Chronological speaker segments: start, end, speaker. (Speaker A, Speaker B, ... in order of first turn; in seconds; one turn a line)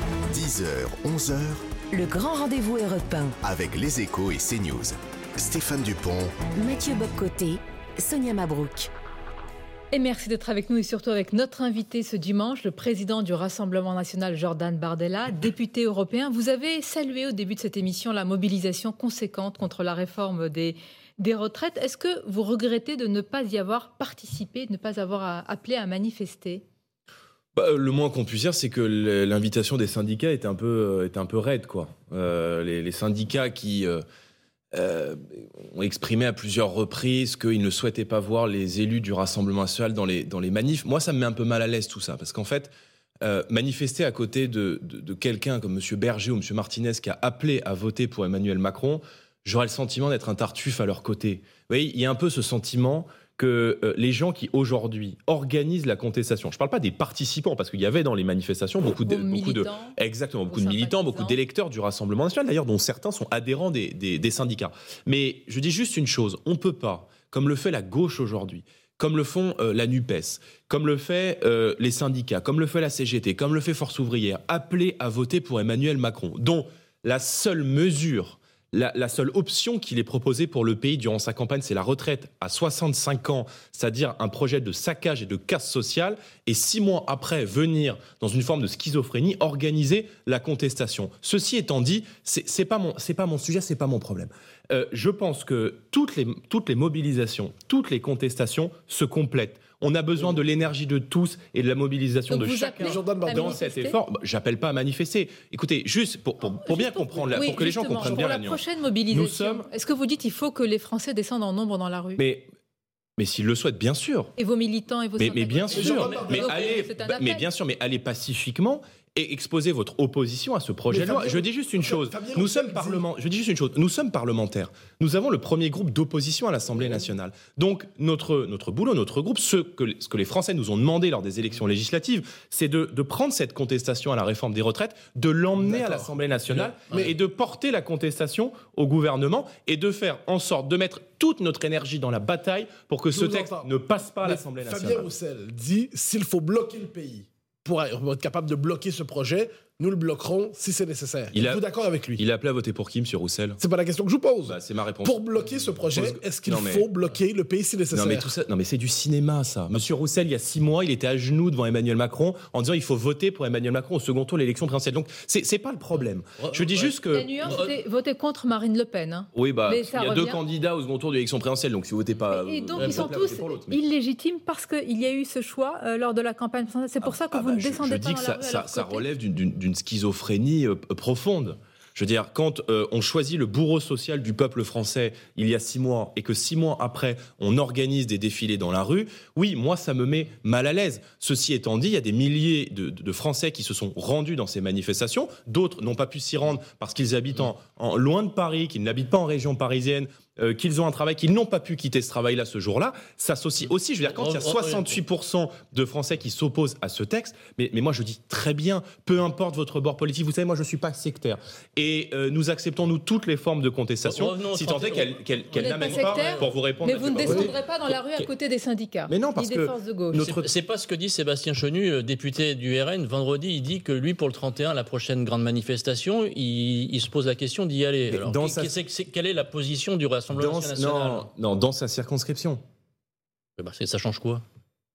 Speaker A: 0.3-1.7
Speaker B: 1.9-3.4
Speaker A: 3.4-6.5
Speaker B: 6.5-8.9
Speaker C: 9.9-26.6
Speaker D: 27.6-34.0
Speaker D: 34.7-109.7
Speaker C: 59.0-60.0
Speaker C: 60.5-61.4
Speaker C: 102.3-104.0
Speaker E: 102.8-103.6
Speaker C: 106.4-112.2
Speaker D: 112.2-112.5
Speaker D: 113.2-114.3
Speaker C: 114.4-117.5
Speaker D: 115.2-145.1
Speaker E: 115.7-116.5
Speaker F: 116.0-116.4
Speaker E: 120.9-123.0
Speaker E: 135.6-137.1
Speaker E: 143.1-143.7
Speaker E: 144.2-152.2
Speaker D: 151.3-151.6
Speaker D: 152.2-153.6
Speaker E: 153.6-158.3
Speaker D: 154.4-155.2
Speaker D: 155.9-156.9
Speaker D: 157.9-167.7
Speaker F: 166.4-167.0
Speaker C: 167.1-170.4
Speaker D: 169.3-173.8
Speaker C: 172.3-179.1
Speaker F: 172.8-173.2
Speaker D: 177.0-217.6
Speaker F: 204.1-205.0
Speaker F: 214.1-216.6
Speaker C: 215.6-220.3
Speaker D: 219.1-220.5
Speaker F: 220.2-231.3
Speaker D: 228.1-228.7
Speaker D: 230.3-232.6
Speaker F: 233.6-234.4